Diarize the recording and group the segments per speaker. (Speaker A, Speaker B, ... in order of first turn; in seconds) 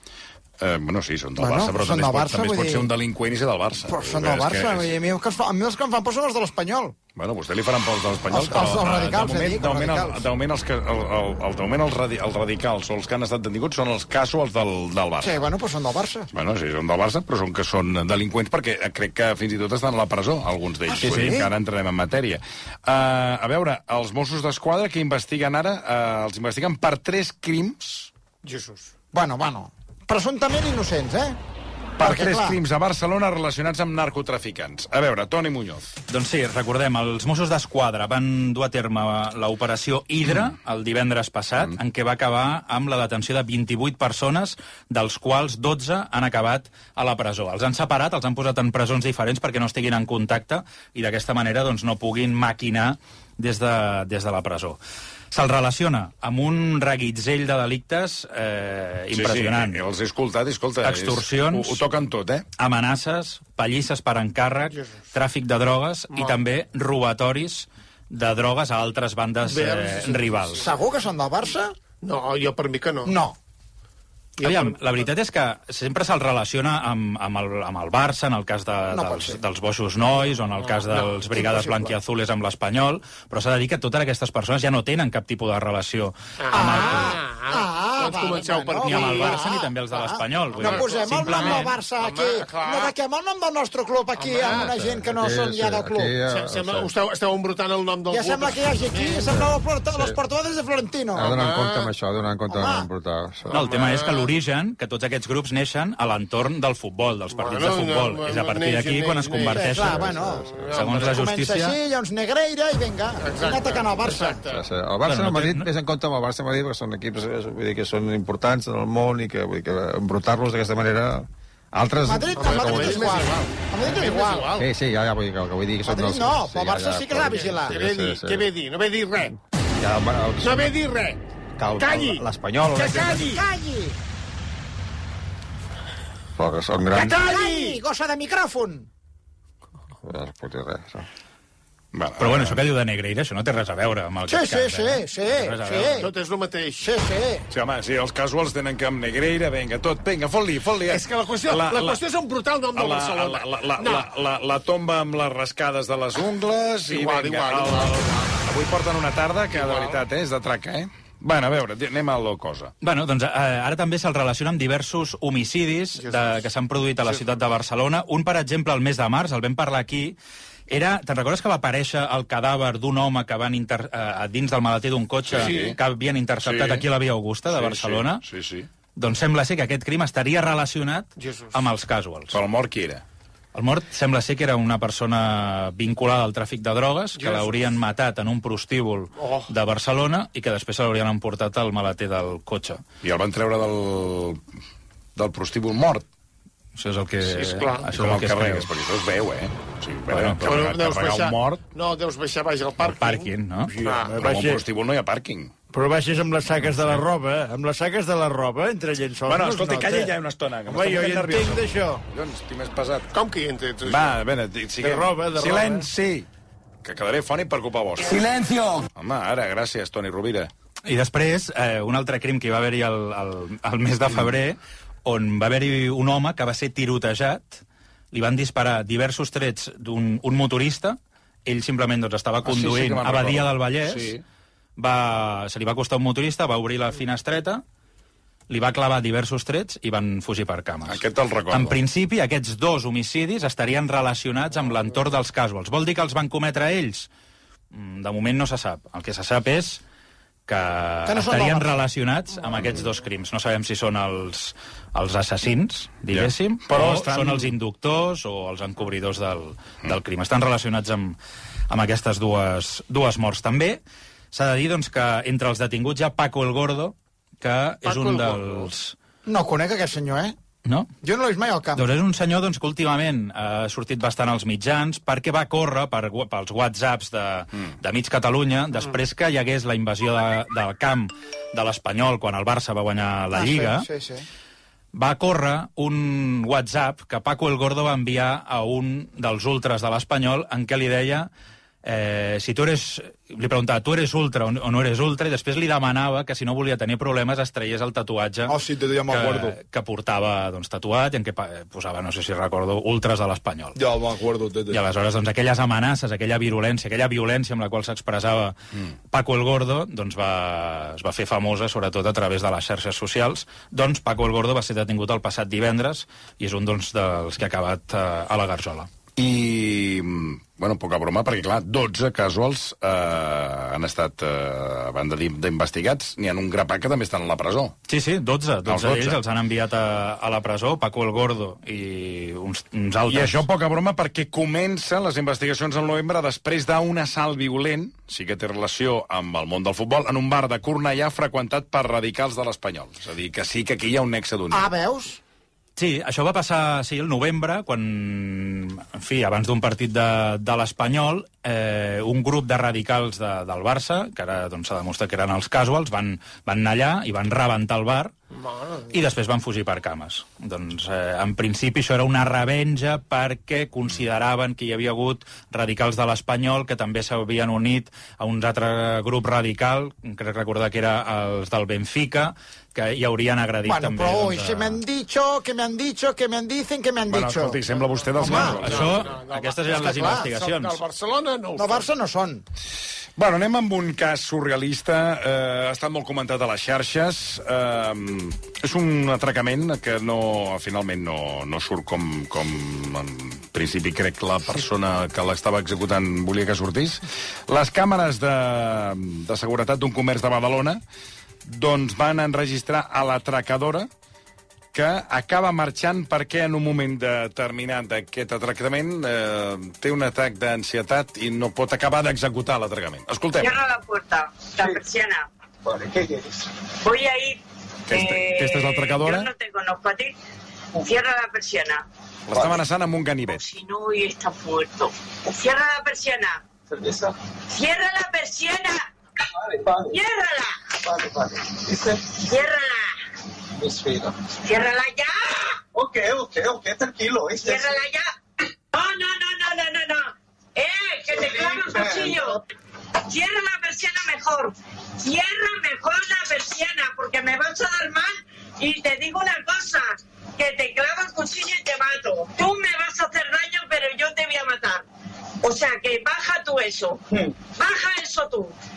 Speaker A: 0.6-4.9, 7.2-15.4, 16.3-28.1, 32.0-35.9, 59.1-62.5, 141.9-142.6, 147.5-152.0, 152.7-162.7, 175.3-175.8, 176.4-176.8, 177.5-178.7, 182.3-183.0, 193.0-194.4, 195.2-196.1, 197.9-201.6, 204.2-205.5, 209.3-213.1, 213.8-216.3, 216.8-218.3, 218.9-220.5, 232.4-234.2, 240.9-241.8, 256.1-257.5, 319.1-327.8, 328.6-329.2, 333.1-344.7, 377.1-379.2, 383.2-400.8, 401.4-403.9, 404.7-413.6, 417.9-419.3, 422.3-423.4
Speaker B: 1.4-2.9, 3.9-7.0, 8.3-10.2, 15.2-16.3, 20.9-21.5, 29.1-31.4, 32.0-32.6, 70.6-71.8, 73.1-73.4, 78.9-79.4, 81.4-81.8, 86.5-96.2, 98.1-101.3, 102.5-102.9, 109.5-114.4, 122.1-124.5, 125.9-127.8, 132.8-134.0, 136.9-138.9, 144.3-146.1, 146.8-147.4, 251.1-251.8, 269.2-270.4, 271.0-271.9, 283.3-284.2, 298.5-299.6, 303.8-304.8, 344.5-345.2, 373.6-377.6, 378.2-378.6, 379.7-380.2, 381.6-382.4
Speaker C: 28.4-28.9, 66.1-66.4, 69.4-70.7, 72.0-73.1, 74.4-75.0, 80.7-81.2, 86.4-89.5, 90.5-93.0, 94.2-94.7, 96.2-99.4, 101.3-101.9, 103.5-104.3, 107.3-111.2, 113.2-114.6, 122.3-124.7, 127.3-129.4, 130.4-131.2, 131.8-132.2, 132.8-133.4, 136.9-137.8, 145.9-146.9, 150.9-154.1, 156.9-158.3, 159.5-160.0, 166.0-166.4, 175.4-175.8, 181.2-181.6, 187.2-187.6, 189.1-189.5, 197.2-197.9, 200.4-204.2, 213.1-214.2, 267.9-268.7, 358.3-358.9, 377.7-381.9
Speaker D: 36.1-54.8, 55.3-59.8, 60.8-61.8, 62.6-70.7, 74.4-87.2, 88.8-91.8, 103.5-110.2, 110.7-111.8, 115.1-115.7, 142.2-146.1, 162.8-170.2, 170.7-178.2, 179.0-182.4, 183.5-192.8, 196.8-198.7, 200.1-200.4, 202.8-203.7, 206.6-207.0, 220.8-234.1, 234.8-237.6, 238.5-247.1, 247.7-249.8, 250.5-261.2, 261.7-263.8, 264.3-268.9, 270.6-270.9, 271.8-283.9, 284.9-291.3, 291.8-303.8, 304.7-308.6, 309.1-318.9, 327.9-333.4, 345.8-358.1, 358.9-374.8, 378.3-380.8
Speaker E: 94.5-96.9, 99.3-100.2, 101.1-103.6, 109.9-110.7, 114.4-123.2, 124.6-128.5, 129.8-130.7, 131.6-133.3, 136.4-137.2, 140.0-141.1
Speaker F: 203.7-204.6, 205.7-210.1, 210.7-212.0, 214.8-215.9
Speaker G: 413.4-415.3, 416.8-420.1, 420.7-421.9, 423.3-426.4, 427.5-428.9, 429.9-430.6, 432.1-432.9, 434.4-435.6, 437.4-438.1, 438.7-442.4, 443.1-454.9, 455.4-458.5
Speaker H: 415.6-416.6, 426.7-427.1, 429.4-430.0, 430.8-432.1, 433.6-434.2, 435.7-437.8, 441.1-442.4